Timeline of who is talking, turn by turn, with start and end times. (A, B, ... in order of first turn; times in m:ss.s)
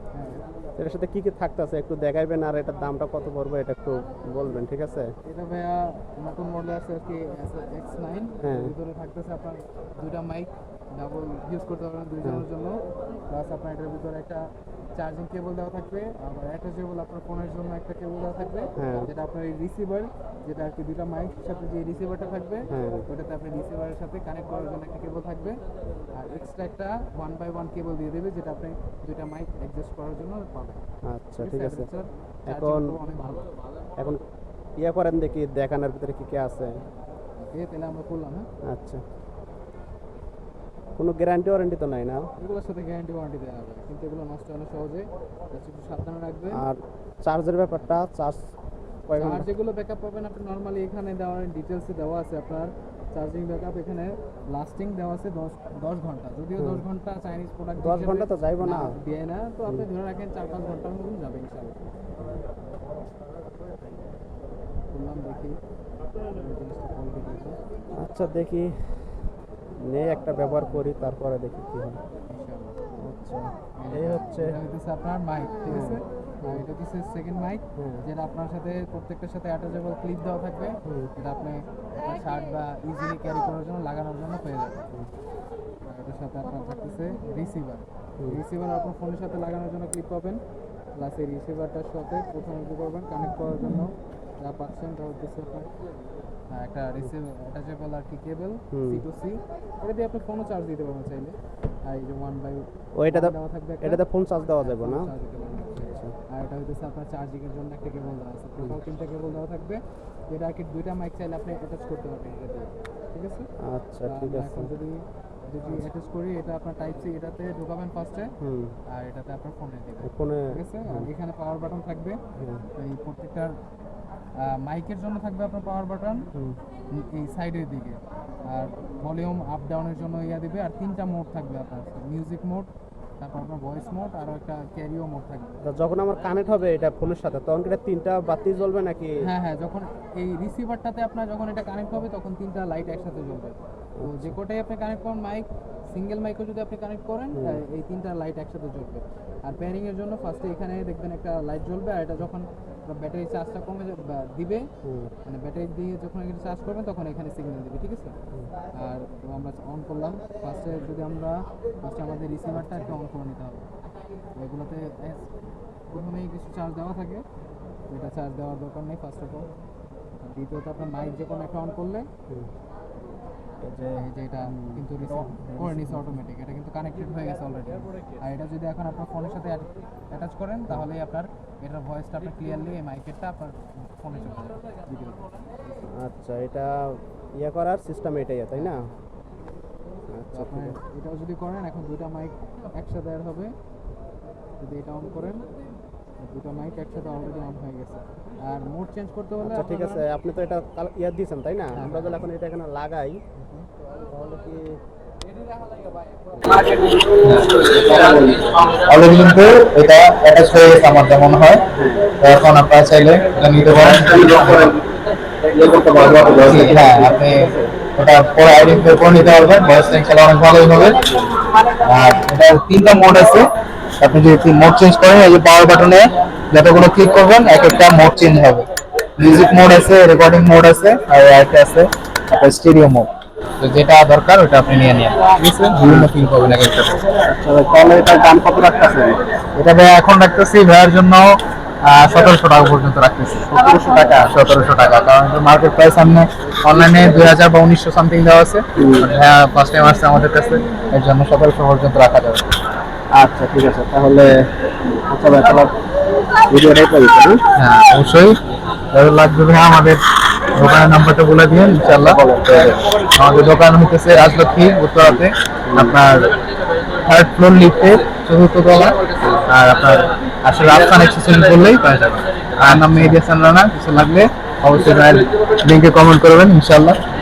0:00.1-0:00.4 A
0:00.8-0:05.1 B
0:05.2-0:25.6 A
0:08.4-0:08.7 B
0:18.8-0:19.1 B
0:22.7-0:23.0 B
0:26.1-0:30.8 A
0:31.1-0:31.9 B
0:31.4-0:33.5 A
0:32.5-0:33.0 B
0:34.8-0:36.7 B
0:37.4-0:38.5 A
0:38.7-0:39.0 B
0:41.0-0:42.2 B
0:42.4-0:46.6 A
0:46.5-0:48.5 B
0:47.7-0:48.0 A
0:49.1-0:49.5 B
0:49.2-1:01.8 A
0:56.6-0:56.8 B
0:57.8-0:58.8 B
1:04.9-1:05.6 A
1:06.3-1:07.6 A
1:08.0-1:09.2 B
1:09.8-1:12.0 B
1:12.3-1:24.8 A
1:13.9-1:14.6 B
1:15.7-1:16.7 B
1:17.8-1:18.0 B
1:20.8-1:21.1 B
1:25.8-1:30.4 A
1:31.0-1:35.7 A
1:36.5-1:44.0 A
1:38.7-1:39.0 B
1:43.0-1:45.1 B
1:44.6-1:53.5 A
1:45.8-1:46.1 B
1:53.6-1:54.7 B
1:54.1-1:58.4 A
1:58.4-1:58.8 B
1:58.9-2:02.2 A
2:00.0-2:01.1 B
2:02.4-2:02.6 B
2:02.8-2:03.6 A
2:04.4-2:06.3 A
2:06.9-2:15.5 A
2:15.6-2:19.1 B
2:19.2-2:34.6 A
2:24.0-2:24.4 B
2:27.4-2:27.6 B
2:34.8-2:35.1 B
2:35.2-2:38.2 A
2:38.7-2:43.7 A
2:42.6-2:42.9 B
2:44.4-2:45.3 A
2:45.9-2:47.2 A
2:47.9-2:49.5 A
2:50.2-2:52.1 A
2:53.6-2:56.1 B
2:54.0-3:05.3 A
3:06.0-3:08.8 B
3:08.6-3:09.0 A
3:10.1-3:10.8 B
3:10.3-3:13.5 A
3:14.6-3:15.5 A
3:16.2-3:20.1 A
3:19.4-3:23.2 B
3:21.8-3:22.3 A
3:24.1-3:24.8 B
3:26.3-3:26.8 B
3:27.2-3:27.7 C
3:27.8-3:28.6 B
3:28.8-3:31.6 C
3:31.7-3:32.1 B
3:32.2-3:34.8 C
3:33.7-3:34.8 B
3:35.5-3:37.5 B
3:36.0-3:41.0 C
3:41.8-3:43.5 C
3:44.0-3:48.7 C
3:49.2-3:53.1 C
3:53.6-3:57.0 C
3:55.8-3:56.1 B
3:57.2-3:59.2 B
3:59.6-4:12.4 C
4:03.5-4:04.2 B
4:08.8-4:09.1 B
4:13.1-4:14.5 B
4:15.1-4:15.8 B
4:16.5-4:17.4 B
4:17.6-4:18.4 C
4:18.9-4:20.0 C
4:20.5-4:26.3 C
4:21.8-4:22.7 B
4:25.1-4:26.0 B
4:27.0-4:37.0 C